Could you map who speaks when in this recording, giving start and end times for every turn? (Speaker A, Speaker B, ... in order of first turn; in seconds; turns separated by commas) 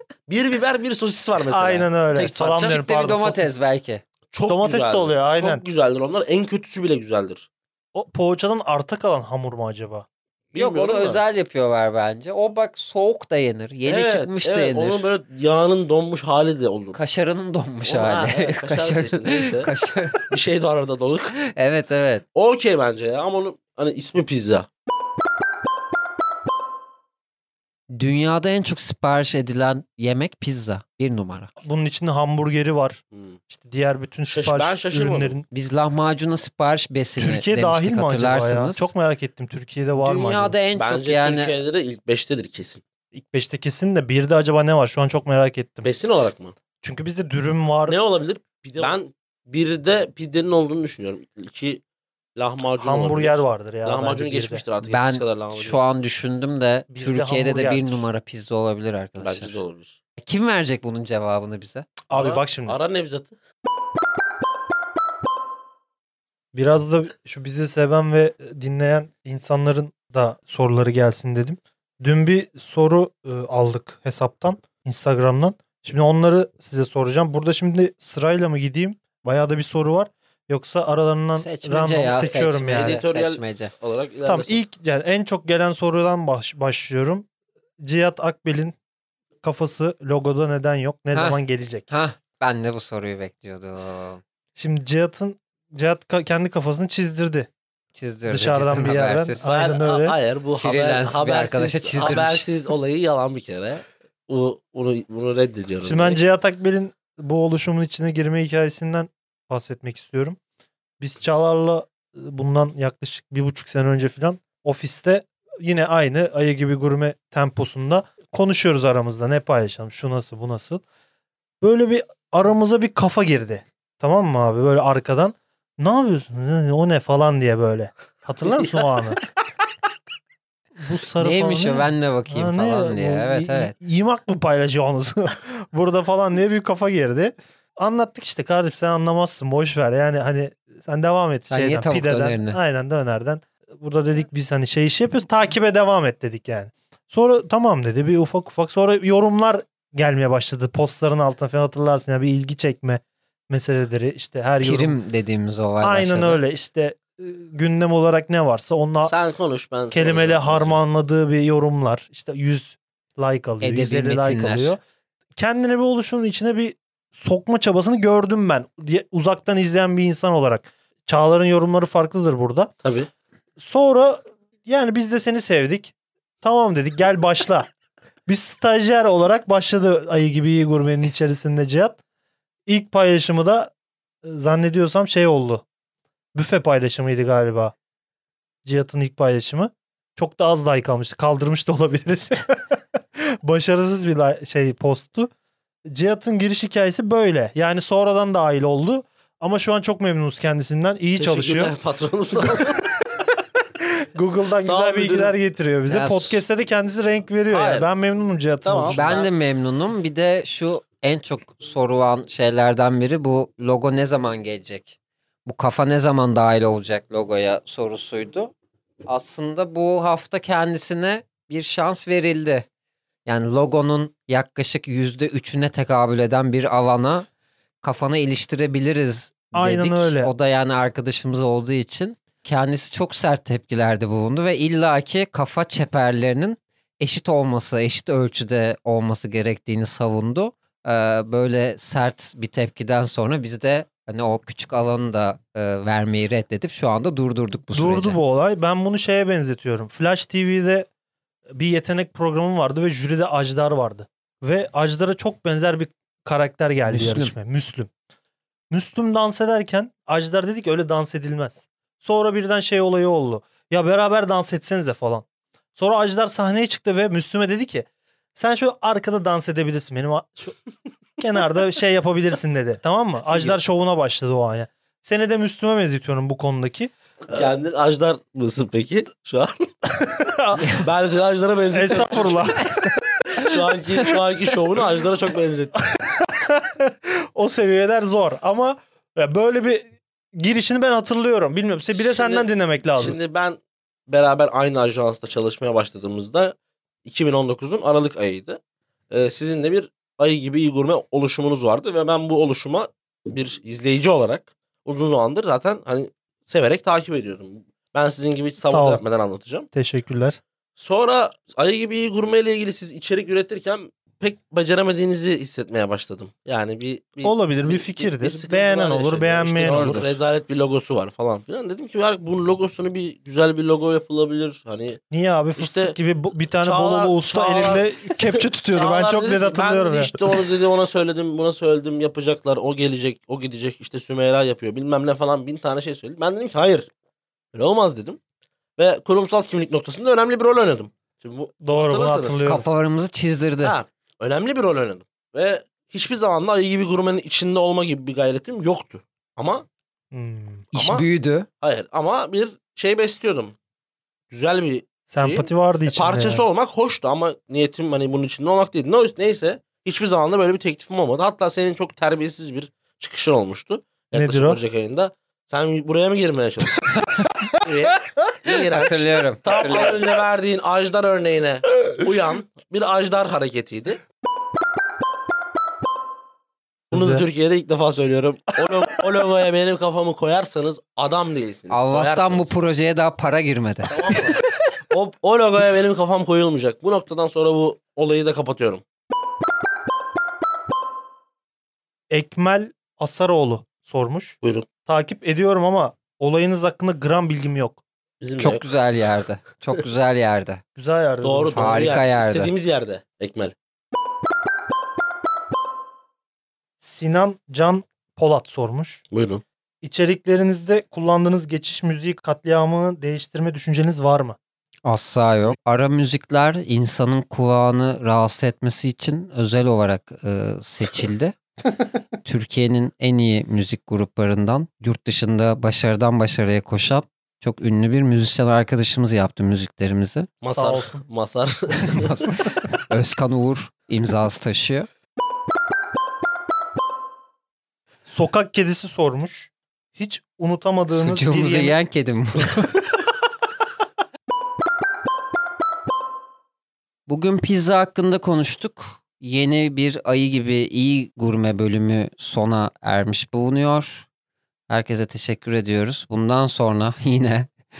Speaker A: 0.3-2.8, Speaker B: 1.5-3.6, Speaker C: 2.7-4.0, Speaker A: 4.3-7.5, Speaker B: 4.5-5.7, Speaker B: 8.0-10.1, Speaker A: 10.5-11.2, Speaker C: 10.6-15.0, Speaker A: 13.9-17.0, Speaker C: 16.9-20.3, Speaker A: 17.9-19.7, Speaker A: 20.3-21.4, Speaker C: 21.5-22.2, Speaker A: 22.4-24.7, Speaker C: 27.9-31.5, Speaker B: 31.6-35.5, Speaker A: 33.1-33.4, Speaker A: 34.3-35.4, Speaker C: 35.5-38.9, Speaker B: 37.2-40.5, Speaker C: 40.0-41.5, Speaker A: 40.8-42.8, Speaker B: 43.1-45.9, Speaker A: 45.8-46.5, Speaker B: 46.8-48.0, Speaker A: 47.9-51.8, Speaker A: 52.4-55.8, Speaker B: 52.8-54.6, Speaker C: 54.8-59.6, Speaker B: 56.9-58.1, Speaker A: 59.2-60.0, Speaker C: 60.2-61.9, Speaker B: 62.1-62.8, Speaker A: 62.1-63.3, Speaker B: 66.5-83.0, Speaker C: 81.4-83.7, Speaker A: 82.7-84.6, Speaker B: 84.3-87.3, Speaker B: 87.8-88.8, Speaker B: 89.4-91.9, Speaker C: 91.1-94.2, Speaker B: 94.6-97.5, Speaker C: 97.9-99.5, Speaker B: 98.3-100.2, Speaker A: 99.4-106.2, Speaker C: 100.6-102.5, Speaker B: 105.8-110.4, Speaker B: 111.0-120.8, Speaker B: 121.6-129.2, Speaker A: 128.5-129.1, Speaker B: 130.8-155.0, Speaker C: 131.2-133.7, Speaker C: 141.5-142.6, Speaker C: 154.6-156.4, Speaker B: 155.8-159.1, Speaker A: 159.0-160.8, Speaker B: 159.9-164.8, Speaker C: 163.6-164.8, Speaker B: 165.4-172.7, Speaker A: 172.8-173.1, Speaker B: 173.6-177.7, Speaker B: 178.3-182.0, Speaker B: 182.7-183.7, Speaker B: 184.2-185.6, Speaker B: 186.3-187.8, Speaker B: 188.7-192.8, Speaker B: 193.4-195.3, Speaker B: 195.9-201.7, Speaker A: 201.2-202.8, Speaker B: 202.4-203.0, Speaker B: 204.2-209.2, Speaker A: 204.6-205.3, Speaker C: 205.9-206.4, Speaker A: 207.5-207.9, Speaker A: 208.6-209.3, Speaker C: 208.9-218.5, Speaker C: 219.1-222.7, Speaker C: 223.2-227.3, Speaker C: 227.8-248.2, Speaker B: 229.5-230.3, Speaker B: 247.7-250.9, Speaker B: 251.5-257.9, Speaker C: 256.9-257.3, Speaker B: 258.7-270.6, Speaker B: 271.2-277.4, Speaker A: 273.2-273.6, Speaker A: 277.3-279.7, Speaker B: 279.9-280.9, Speaker A: 280.6-282.6, Speaker B: 281.7-283.6, Speaker A: 283.4-285.8, Speaker B: 285.9-293.2, Speaker A: 291.9-298.6, Speaker A: 299.1-309.7, Speaker B: 308.6-309.0, Speaker B: 309.7-310.4, Speaker A: 310.8-325.0, Speaker B: 317.2-320.1, Speaker C: 319.6-320.2, Speaker B: 325.1-330.2, Speaker A: 325.6-326.0, Speaker A: 326.6-336.9, Speaker A: 337.5-338.2, Speaker A: 338.8-342.5, Speaker B: 341.6-342.6, Speaker C: 342.4-343.8, Speaker A: 343.6-349.7, Speaker B: 350.1-350.7, Speaker C: 350.7-351.5, Speaker A: 350.8-351.1, Speaker A: 351.6-353.6, Speaker A: 354.3-366.9, Speaker B: 355.1-356.4, Speaker B: 364.1-364.6, Speaker A: 367.6-374.0, Speaker C: 368.5-370.0, Speaker A: 376.9-382.5, Speaker B: 376.9-377.2, Speaker B: 378.6-379.0, Speaker C: 381.7-384.2, Speaker B: 383.9-384.4, Speaker A: 384.9-388.8, Speaker B: 392.1-397.8, Speaker A: 394.4-394.7, Speaker A: 398.2-398.7, Speaker C: 398.4-400.6, Speaker B: 400.8-401.9, Speaker A: 401.2-403.5, Speaker C: 401.5-402.5, Speaker B: 406.8-409.0, Speaker A: 409.1-409.4, Speaker B: 409.8-414.4, Speaker C: 414.9-421.4, Speaker C: 422.2-430.3, Speaker A: 430.4-432.1, Speaker B: 430.5-431.1, Speaker C: 431.9-434.9, Speaker B: 438.1-441.8, Speaker C: 440.9-442.7, Speaker C: 447.1-454.1, Speaker C: 454.7-457.5